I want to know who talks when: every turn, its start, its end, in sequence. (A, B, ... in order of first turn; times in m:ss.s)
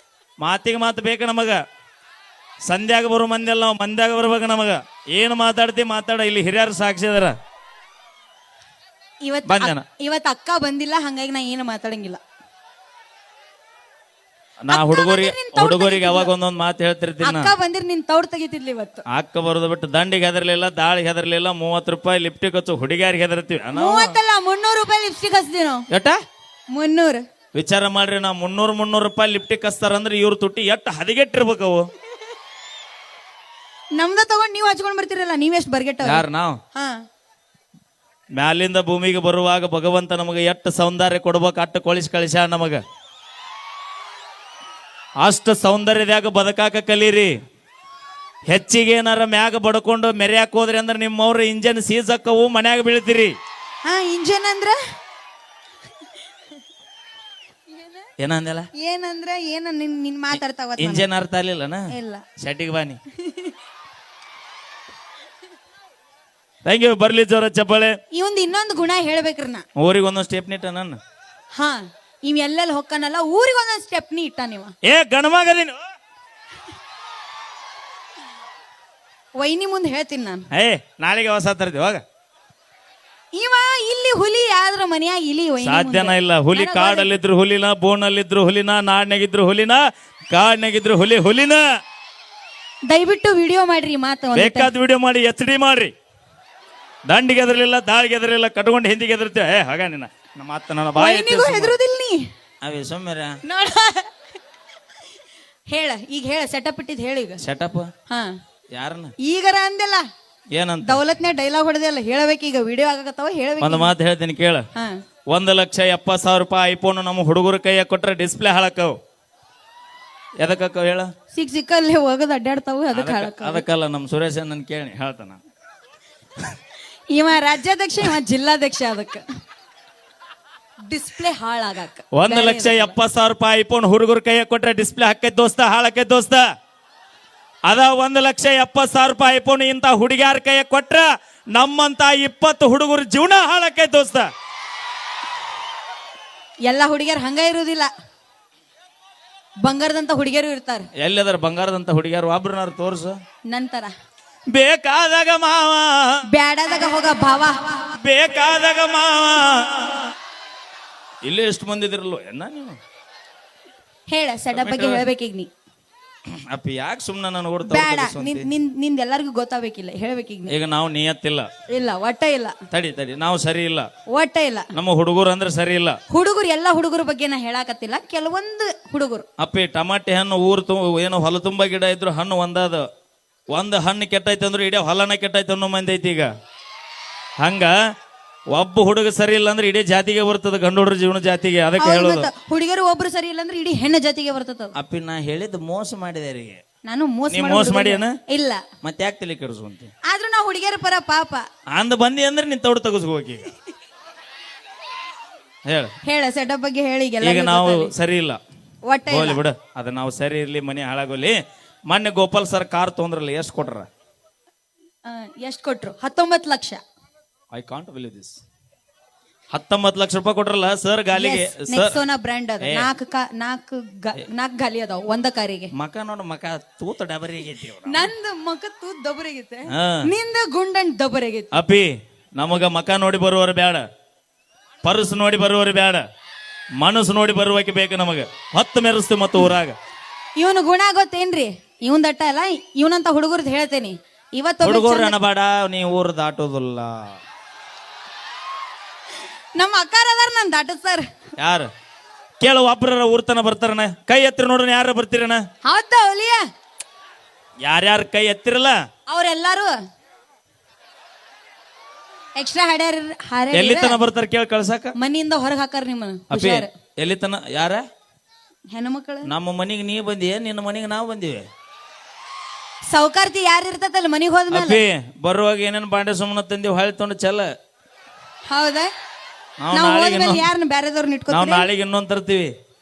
0:00.4-0:01.6 A
0:02.6-0:07.4 A
0:09.2-0:12.2 B
0:09.5-0:09.8 A
0:14.6-0:17.5 A
0:14.7-0:16.3 B
0:17.2-0:19.0 B
0:19.1-0:24.2 A
0:23.7-0:25.9 B
0:25.9-0:26.2 A
0:26.7-0:27.2 B
0:27.6-0:31.9 A
0:34.0-0:37.0 B
0:36.0-0:36.6 A
0:38.4-0:42.8 A
0:45.2-0:47.3 A
0:48.5-0:53.3 A
0:53.8-0:54.8 B
0:57.7-0:58.0 B
0:58.2-0:58.7 A
0:58.8-1:01.1 B
1:00.8-1:03.0 A
1:01.9-1:02.2 B
1:03.2-1:03.6 B
1:06.6-1:08.0 A
1:08.1-1:09.6 B
1:09.8-1:11.0 A
1:11.5-1:14.8 B
1:14.8-1:15.8 A
1:19.4-1:20.5 B
1:20.5-1:22.0 A
1:23.3-1:27.1 B
1:25.6-1:31.6 A
1:32.9-1:34.7 B
1:34.3-1:35.9 A
1:37.1-1:41.8 A
1:41.0-1:42.2 B
1:42.6-1:43.4 A
1:43.4-1:44.1 B
1:45.7-1:47.4 B
1:47.4-1:47.9 A
1:48.1-1:48.3 B
1:48.8-1:49.1 A
1:49.2-1:50.0 B
1:50.5-1:51.0 A
1:50.8-1:53.9 B
1:53.6-1:54.7 A
1:55.3-1:59.0 A
2:00.4-2:01.1 A
2:01.3-2:03.6 B
2:02.9-2:05.4 A
2:07.1-2:09.2 B
2:10.9-2:13.0 B
2:12.1-2:16.4 A
2:17.6-2:24.3 A
2:26.6-2:27.9 B
2:29.6-2:30.9 B
2:31.0-2:33.2 A
2:33.5-2:33.9 B
2:34.5-2:36.2 A
2:36.3-2:37.9 B
2:37.9-2:40.0 A
2:41.2-2:42.8 A
2:44.1-2:45.5 B
2:44.5-2:45.1 A
2:46.3-2:48.5 A
2:47.6-2:50.5 B
2:50.5-2:51.5 A
2:51.7-2:52.6 B
2:52.7-2:53.9 A
2:54.1-2:54.7 B
2:54.7-2:56.0 A
2:56.1-2:59.2 B
2:59.4-3:02.8 A
3:03.5-3:06.3 A
3:07.4-3:07.7 A
3:08.5-3:12.3 A
3:11.8-3:14.7 B
3:14.7-3:16.6 A
3:16.8-3:18.6 B
3:17.3-3:18.2 A
3:18.8-3:19.9 A
3:20.0-3:21.4 B
3:21.7-3:23.5 A
3:25.7-3:25.9 A
3:26.0-3:27.9 B
3:27.2-3:28.4 A
3:28.8-3:29.4 B
3:29.1-3:31.4 A
3:31.9-3:33.9 A
3:35.0-3:36.8 B
3:37.5-3:38.4 A
3:39.5-3:42.0 A
3:41.1-3:45.7 B
3:42.6-3:42.9 A
3:45.7-3:48.0 A
3:47.8-3:51.5 B
3:49.7-3:50.1 A
3:51.5-3:53.8 A
3:54.8-3:56.0 A
3:56.8-3:59.7 A
4:00.4-4:05.1 B
4:04.6-4:07.1 A
4:09.6-4:11.0 B
4:11.4-4:11.7 A
4:12.4-4:15.4 A
4:15.6-4:16.4 B
4:17.6-4:18.8 A
4:19.1-4:19.8 B
4:22.4-4:24.0 B
4:23.5-4:24.9 A
4:25.0-4:26.7 B
4:26.3-4:27.8 A
4:28.7-4:29.3 B
4:29.2-4:31.4 A
4:32.9-4:34.8 B
4:34.5-4:37.5 A
4:38.5-4:38.9 B
4:39.6-4:40.4 A
4:39.7-4:41.7 B
4:41.3-4:42.5 A